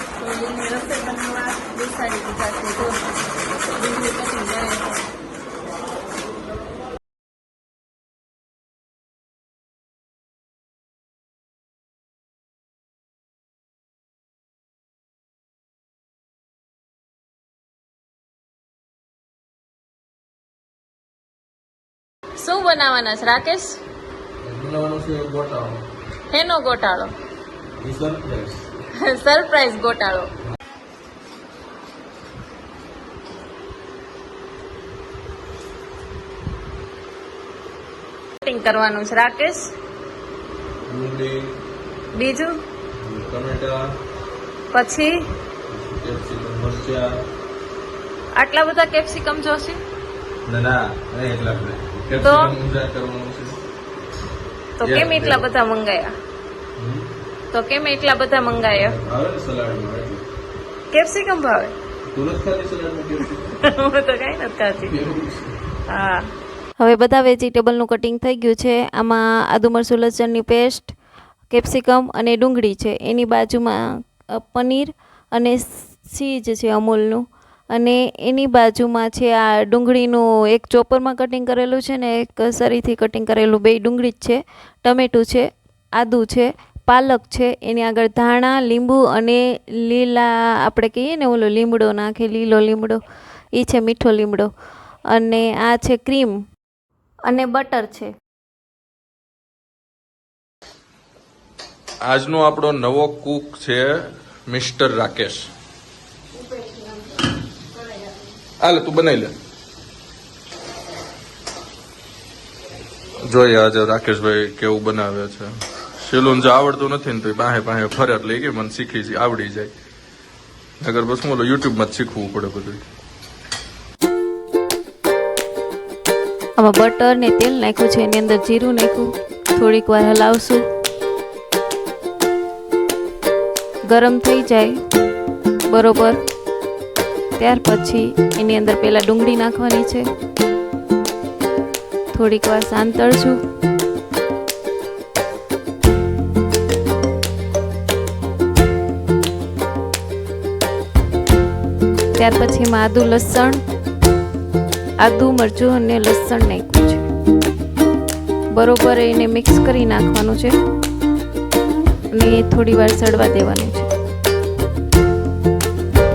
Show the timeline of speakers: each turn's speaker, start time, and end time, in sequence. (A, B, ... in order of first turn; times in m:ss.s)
0:00.2-0:03.1 A
0:03.7-0:05.0 A
0:22.4-0:23.8 A
0:24.4-0:25.9 B
0:26.3-0:27.1 A
0:27.8-0:28.7 B
0:29.0-0:30.3 A
0:38.4-0:39.7 A
0:40.9-0:41.5 B
0:42.1-0:42.5 A
0:43.0-0:43.8 B
0:44.7-0:45.1 A
0:45.7-0:47.1 B
0:48.4-0:49.8 A
0:50.5-0:53.6 B
0:52.2-0:52.5 A
0:54.8-0:56.1 A
0:54.8-0:55.4 B
0:56.8-0:57.1 B
0:57.5-0:59.0 A
0:58.5-1:00.2 B
1:00.9-1:01.7 A
1:02.1-1:03.6 B
1:03.6-1:04.9 A
1:04.8-1:05.6 B
1:05.9-1:06.2 A
1:06.8-1:10.9 C
1:11.5-1:13.8 C
1:14.3-1:33.0 C
1:33.5-1:34.5 C
1:35.1-1:36.4 C
1:37.2-1:38.1 C
1:42.0-1:45.5 B
1:48.6-1:49.3 B
1:53.2-1:59.7 B
2:00.8-2:02.8 B
2:06.6-2:10.6 C
2:13.9-2:14.8 C
2:15.7-2:16.2 C
2:17.4-2:20.1 C
2:22.1-2:23.4 C
2:32.2-2:33.6 C
2:35.0-2:37.0 C
2:38.5-2:40.6 C
2:42.1-2:43.9 C